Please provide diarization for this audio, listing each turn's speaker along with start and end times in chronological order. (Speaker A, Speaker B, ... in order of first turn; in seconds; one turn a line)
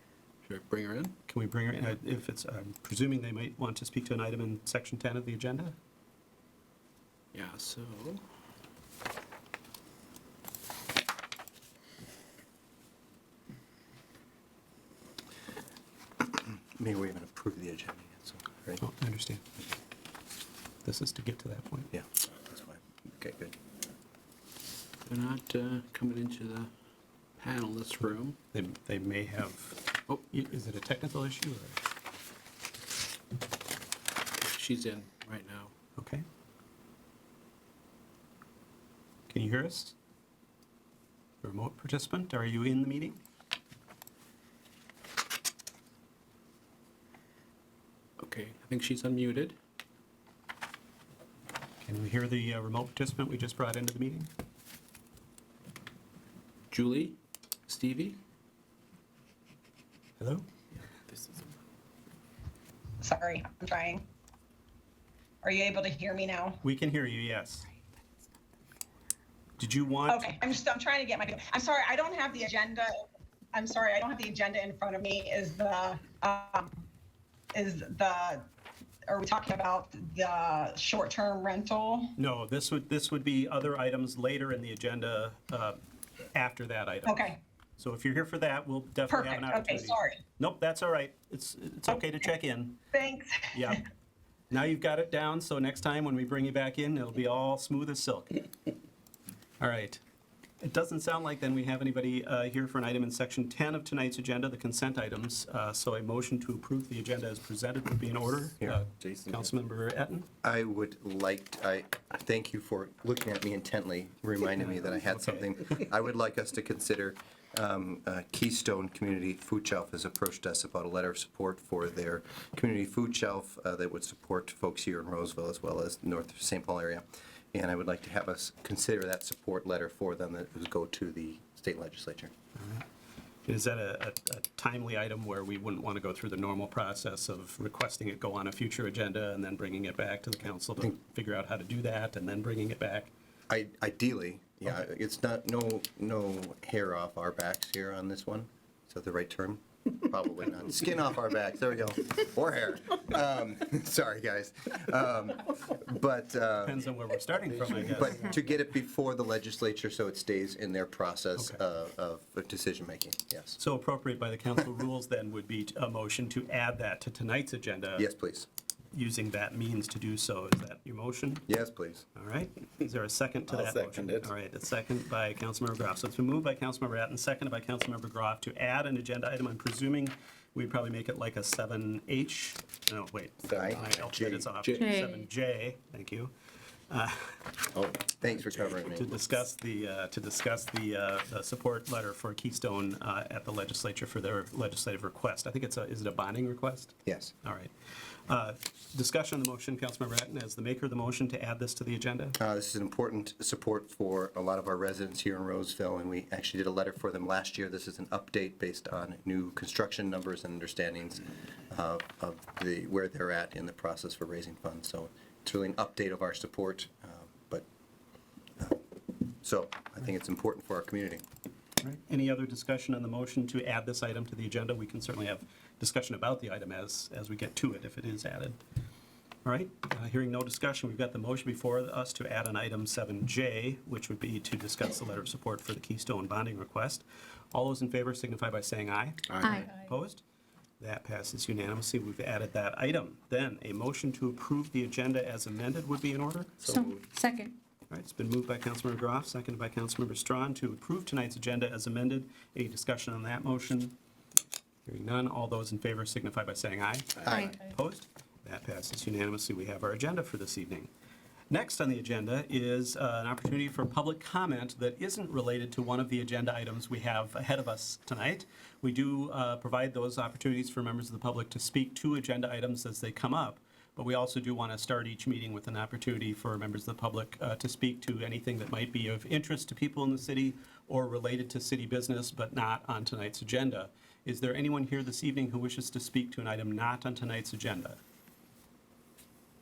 Speaker A: 0.5-1.1
Speaker B: 1.3-5.8
Speaker A: 7.3-8.2
Speaker C: 16.2-18.8
Speaker B: 18.8-19.4
Speaker B: 20.8-21.9
Speaker C: 21.9-23.6
Speaker A: 25.1-26.7
Speaker A: 27.4-28.4
Speaker B: 28.5-31.8
Speaker A: 34.4-35.7
Speaker B: 36.0-36.2
Speaker B: 39.3-40.0
Speaker B: 41.4-43.2
Speaker A: 48.2-49.5
Speaker B: 51.8-54.3
Speaker A: 56.7-57.2
Speaker A: 57.7-58.2
Speaker B: 60.2-60.5
Speaker D: 63.0-64.0
Speaker D: 65.4-66.6
Speaker B: 66.6-67.7
Speaker B: 69.6-70.4
Speaker D: 70.1-76.8
Speaker D: 77.5-78.5
Speaker D: 79.1-82.1
Speaker B: 82.2-85.8
Speaker B: 86.3-87.2
Speaker D: 87.1-87.4
Speaker B: 87.8-92.8
Speaker D: 89.1-90.2
Speaker D: 92.9-93.8
Speaker B: 93.5-93.8
Speaker B: 94.5-98.4
Speaker B: 99.6-100.0
Speaker B: 100.6-110.3
Speaker C: 110.4-132.3
Speaker B: 114.6-115.5
Speaker B: 132.6-132.8
Speaker B: 133.4-143.1
Speaker C: 143.5-157.0
Speaker B: 156.7-158.4
Speaker C: 157.6-163.6
Speaker B: 161.4-161.6
Speaker B: 163.6-168.1
Speaker C: 168.0-168.5
Speaker B: 168.9-171.5
Speaker C: 171.5-172.1
Speaker B: 172.2-186.3
Speaker A: 173.5-174.3
Speaker C: 183.5-184.5
Speaker A: 184.6-185.0
Speaker E: 184.8-185.2
Speaker B: 186.9-187.4
Speaker C: 188.0-189.2
Speaker B: 188.7-197.7
Speaker C: 197.1-197.3
Speaker B: 198.3-202.4
Speaker C: 202.4-217.7
Speaker C: 219.4-221.2
Speaker B: 221.8-228.6
Speaker B: 229.4-240.2
Speaker A: 239.3-239.6
Speaker E: 239.4-239.7
Speaker B: 240.8-247.0
Speaker E: 246.6-247.6
Speaker B: 247.9-254.0
Speaker B: 254.9-260.9
Speaker C: 257.2-257.6
Speaker E: 257.3-257.6
Speaker B: 261.5-288.0